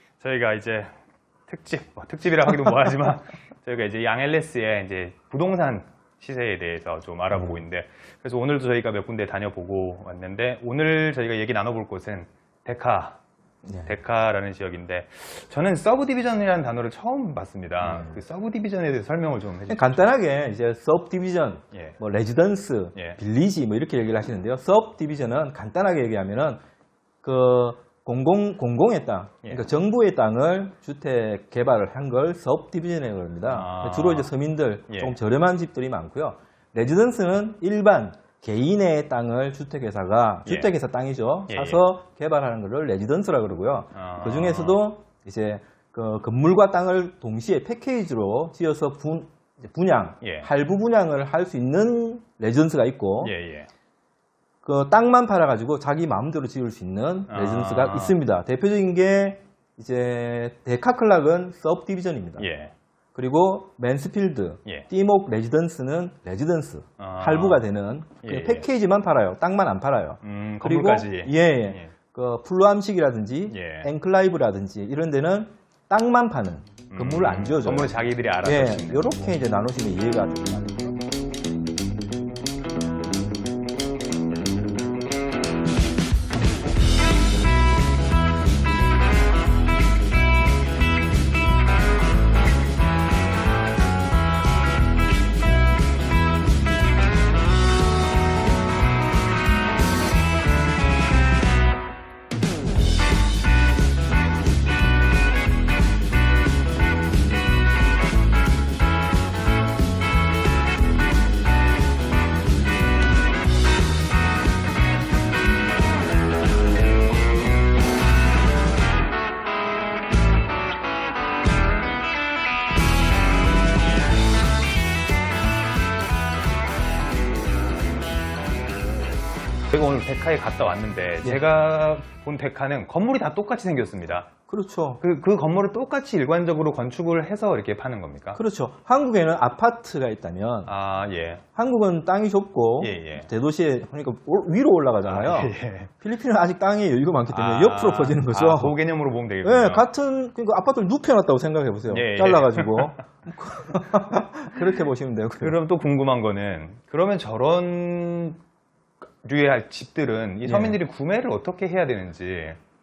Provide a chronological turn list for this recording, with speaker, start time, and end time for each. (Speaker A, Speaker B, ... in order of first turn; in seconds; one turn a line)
Speaker A: 0.2-0.9
Speaker A: 1.5-13.2
Speaker B: 7.3-7.6
Speaker B: 13.6-14.0
Speaker A: 13.8-20.0
Speaker B: 17.8-18.2
Speaker B: 19.7-26.6
Speaker A: 21.7-22.0
Speaker B: 27.2-53.4
Speaker A: 33.5-34.3
Speaker A: 34.9-35.2
Speaker A: 40.5-40.7
Speaker A: 41.5-41.8
Speaker A: 43.9-44.8
Speaker A: 50.2-50.5
Speaker A: 53.2-53.7
Speaker B: 54.6-62.5
Speaker A: 57.3-58.2
Speaker A: 62.4-62.7
Speaker B: 63.1-81.0
Speaker A: 67.0-67.7
Speaker A: 68.2-68.7
Speaker A: 70.2-71.9
Speaker A: 73.5-73.9
Speaker A: 76.9-79.3
Speaker A: 129.7-134.3
Speaker B: 134.5-135.0
Speaker A: 135.0-138.4
Speaker B: 138.3-140.7
Speaker A: 140.7-141.4
Speaker B: 141.6-148.8
Speaker A: 142.8-143.3
Speaker A: 145.1-145.9
Speaker A: 147.3-149.8
Speaker B: 149.4-155.6
Speaker A: 151.9-153.0
Speaker A: 155.4-158.4
Speaker A: 159.2-162.6
Speaker B: 160.4-160.8